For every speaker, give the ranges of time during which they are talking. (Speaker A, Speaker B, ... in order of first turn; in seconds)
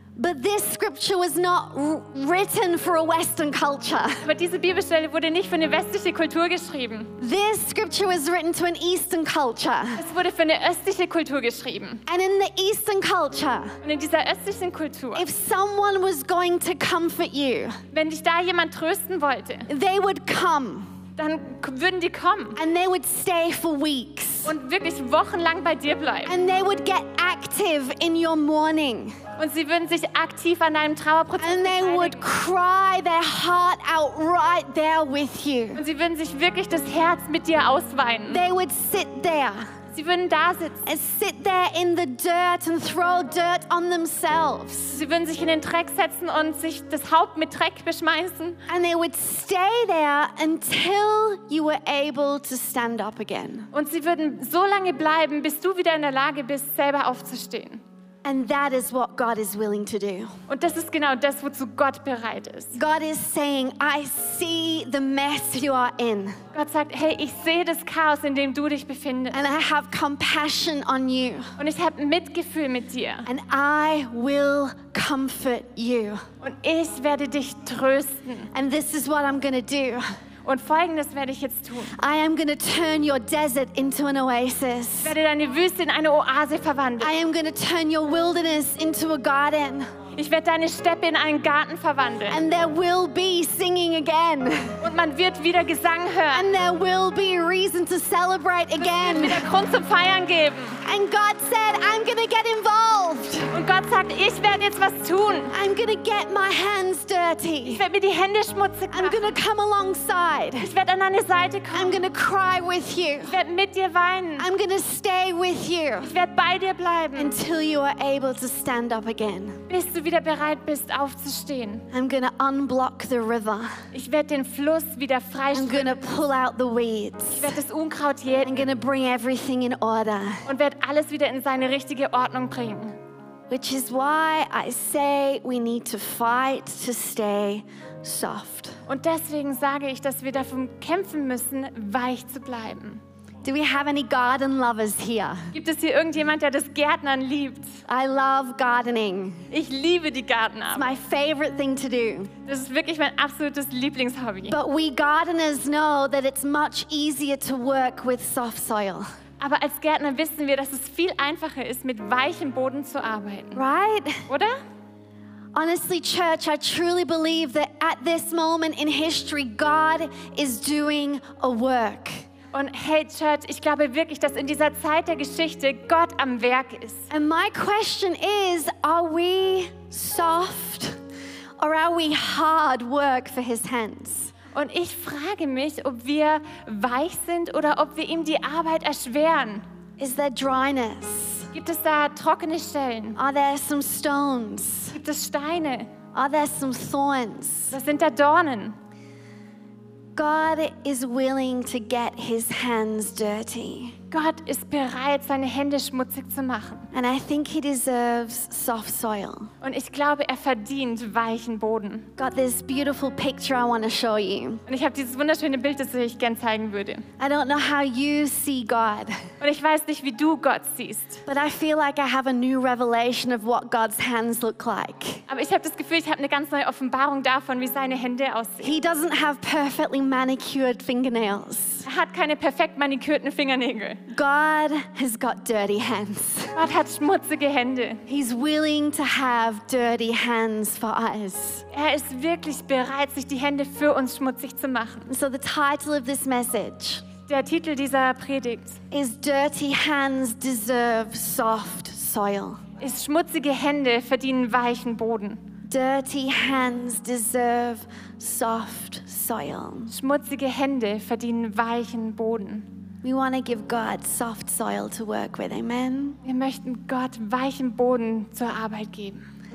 Speaker A: 0.2-4.2, 7.2-10.0, 12.1-13.8, 15.2-17.8, 19.7-20.9, 22.6-24.5, 26.3-29.2, 31.4-35.8, 38.3-39.7, 40.9-45.0, 48.7-53.7, 58.2-60.3, 62.7-66.4, 69.3-71.5, 73.3-76.2, 78.5-80.0, 82.0-85.2, 87.0-89.9, 92.3-94.8, 96.3-99.5, 100.8-103.5, 105.5-107.8, 108.9-110.7, 111.7-113.4, 114.4-116.1, 117.2-119.6, 121.9-123.8, 125.5-127.6, 128.4-130.4, 133.5-138.8, 143.4-145.5, 147.9-149.4, 150.7-152.3, 154.5-159.1, 163.6-164.3, 165.5-172.2, 177.1-181.0, 181.6-184.3, 190.0-191.5, 193.2-194.9, 196.1-197.8, 200.2-203.9, 206.9-209.5, 212.2-214.6, 217.2-219.2, 221.3-225.2, 228.6-231.8, 234.1-236.6, 238.1-241.7, 245.1-247.1, 248.9-252.6, 255.7-259.9, 263.0-266.2
Speaker B: 4.2-7.1, 10.0-12.0, 13.8-15.3, 17.9-19.7, 21.2-22.6, 24.4-26.4, 29.4-32.2, 35.8-38.4, 39.9-40.8, 44.9-48.6, 53.7-57.8, 60.5-62.8, 66.5-69.4, 71.6-73.3, 76.4-78.5, 80.5-82.0, 85.0-87.1, 90.2-92.4, 94.8-96.5, 98.8-100.8, 103.5-105.5, 107.7-109.4, 110.6-112.0, 113.3-114.5, 116.0-117.4, 119.7-121.9, 123.9-126.2, 127.3-128.7, 130.5-132.9, 138.9-143.0, 145.5-147.8, 149.5-150.9, 152.5-154.6, 159.4-163.6, 164.3-164.6, 172.5-177.0, 184.5-189.6, 191.5-193.2, 194.9-195.9, 197.7-198.8, 204.1-206.9, 209.6-212.1, 214.7-217.1, 219.4-221.2, 225.3-228.7, 231.8-234.0, 236.6-238.0, 241.7-245.1, 247.3-248.8, 252.8-255.4, 259.9-262.7, 266.2-269.2